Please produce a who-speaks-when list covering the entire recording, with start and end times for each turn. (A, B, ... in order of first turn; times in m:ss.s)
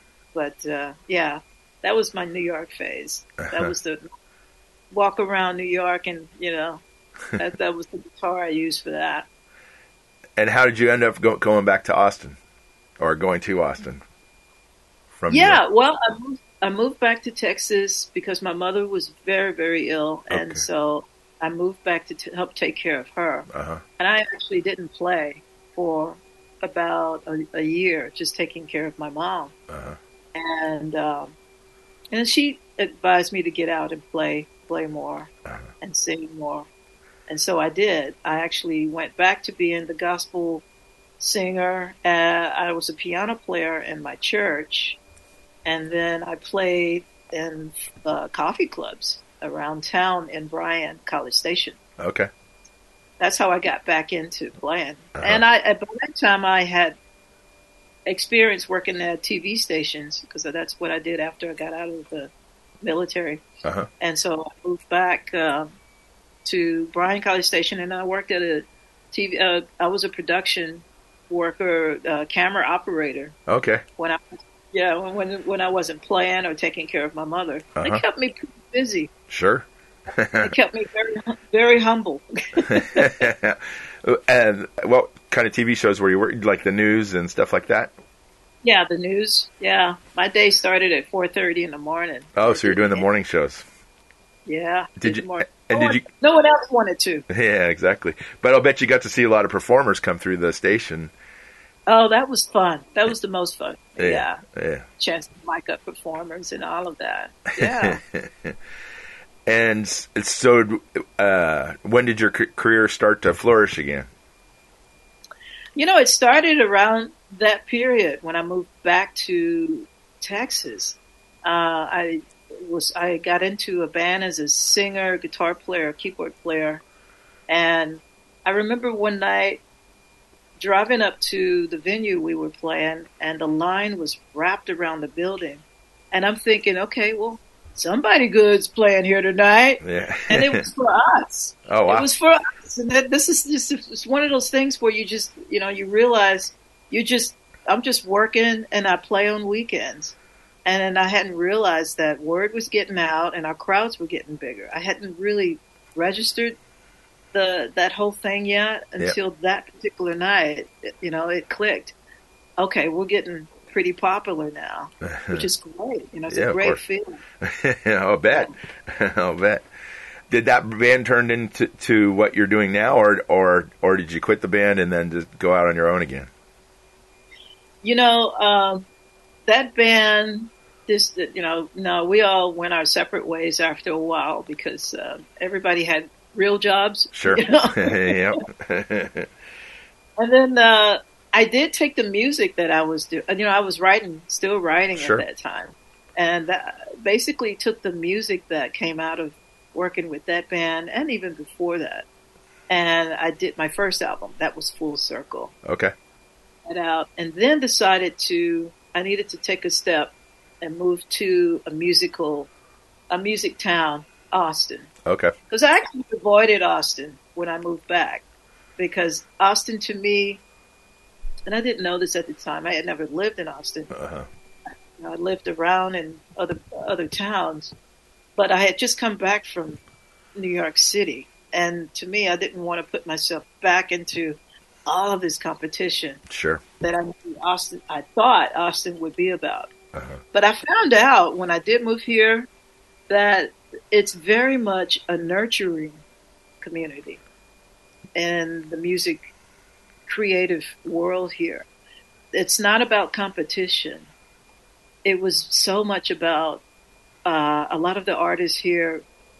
0:00.3-0:04.1 A
0:04.9-0:06.8 A
0:07.4-0:09.3 A
0:10.4-0:12.4 B
0:13.0-0:14.0 B
0:15.2-0:15.6 B
0:15.3-0:29.5 A
0:20.3-0:20.6 B
0:23.5-0:23.8 B
0:29.7-0:30.0 B
0:30.3-0:31.4 A
0:32.1-0:36.7 A
0:37.3-0:40.6 A
0:41.2-0:45.0 A
0:45.6-0:51.8 A
0:52.0-0:52.3 B
0:53.2-0:57.0 A
0:55.2-0:55.4 B
0:58.1-1:02.3 A
1:02.8-1:03.4 A
1:04.0-1:05.7 A
1:06.4-1:13.4 A
1:13.5-1:13.8 B
1:14.0-1:19.1 A
1:17.8-1:18.0 B
1:19.3-1:20.5 B
1:20.4-1:23.3 A
1:22.7-1:27.9 B
1:28.6-1:33.1 A
1:32.4-1:33.6 B
1:34.4-1:37.3 A
1:35.0-1:36.0 B
1:37.3-1:41.1 B
1:41.9-1:44.4 A
1:44.0-1:44.9 B
1:45.0-1:48.0 A
1:47.6-1:48.6 B
1:49.4-1:54.1 B
1:55.8-2:06.8 A
2:07.5-2:09.6 A
2:10.6-2:36.6 A
2:19.8-2:20.6 B
2:21.7-2:22.1 B
2:37.3-2:41.9 A
2:42.6-2:47.2 A
2:45.0-2:45.5 B
2:46.3-2:46.8 B
2:47.4-2:49.6 B
2:50.3-2:56.3 B
2:57.8-2:58.9 A
2:59.5-3:08.4 A
3:07.1-3:09.3 B
3:10.2-3:22.1 A
3:15.0-3:15.2 B
3:22.7-3:25.5 A
3:25.6-3:25.9 B
3:26.6-3:32.5 A
3:33.1-3:34.9 A
3:35.0-3:35.3 B
3:35.5-3:38.2 A
3:38.8-3:40.4 A
3:41.5-3:43.9 A
3:43.9-3:44.3 B
3:45.0-3:47.7 A
3:48.4-3:49.8 A
3:50.4-3:56.2 A
3:56.3-3:56.6 B
3:56.8-3:59.7 A
3:59.9-4:00.2 B
4:00.3-4:02.5 A
4:03.1-4:06.0 A
4:06.6-4:07.2 A
4:08.1-4:09.2 A
4:10.1-4:11.7 A
4:12.3-4:14.1 A
4:15.0-4:16.6 A
4:17.2-4:19.0 A